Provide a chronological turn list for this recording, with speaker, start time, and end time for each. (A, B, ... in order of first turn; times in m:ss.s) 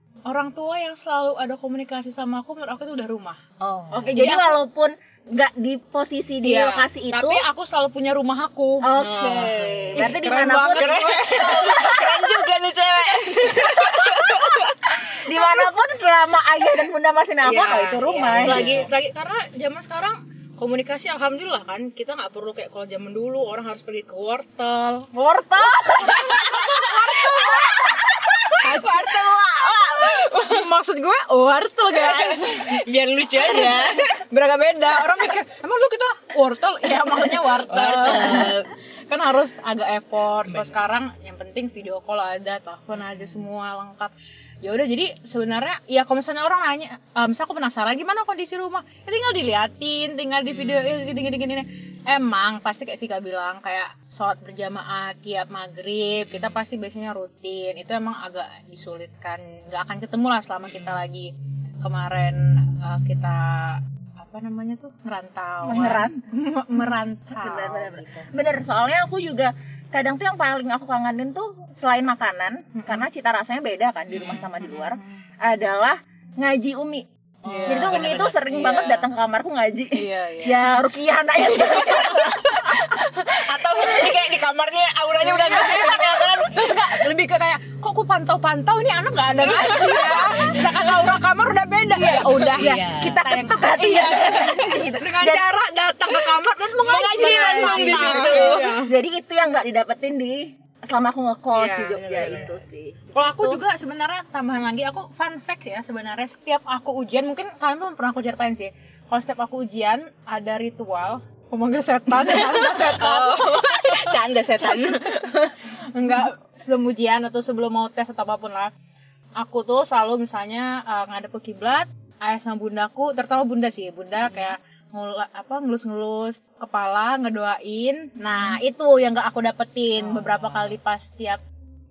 0:00.2-0:03.4 A
0:03.6-0:04.1 B
0:03.9-0:07.4 C
0:04.1-0:04.6 A
0:06.4-0:12.0 A
0:08.8-0:12.3 C
0:10.7-0:14.9 B
0:13.7-0:14.4 C
0:14.9-0:18.8 C
0:17.4-0:18.9 B
0:17.5-0:25.1 A
0:25.1-0:26.5 C
0:25.9-0:29.0 A
0:26.1-0:30.7 B
0:27.4-0:28.0 C
0:29.8-0:32.8 A
0:31.9-0:34.1 B
0:33.4-1:08.2 A
0:37.0-0:38.7 B
0:40.5-0:40.8 B
0:50.5-0:50.8 B
1:05.6-1:06.2 C
1:07.3-1:17.0 C
1:12.7-1:13.0 A
1:14.1-1:15.1 A
1:17.4-1:18.4 B
1:17.4-1:19.0 A
1:17.6-1:23.1 C
1:19.9-1:20.7 A
1:21.6-1:22.8 A
1:23.3-1:26.8 B
1:23.7-1:24.1 C
1:25.2-1:38.9 A
1:29.4-1:31.0 B
1:32.0-1:33.2 B
1:32.5-1:35.5 C
1:36.7-1:38.8 B
1:37.2-1:43.6 C
1:41.5-1:42.6 A
1:42.2-1:42.5 B
1:43.1-1:58.7 A
1:52.1-1:55.6 B
1:59.4-2:11.4 A
2:04.2-2:04.5 B
2:10.0-2:10.8 B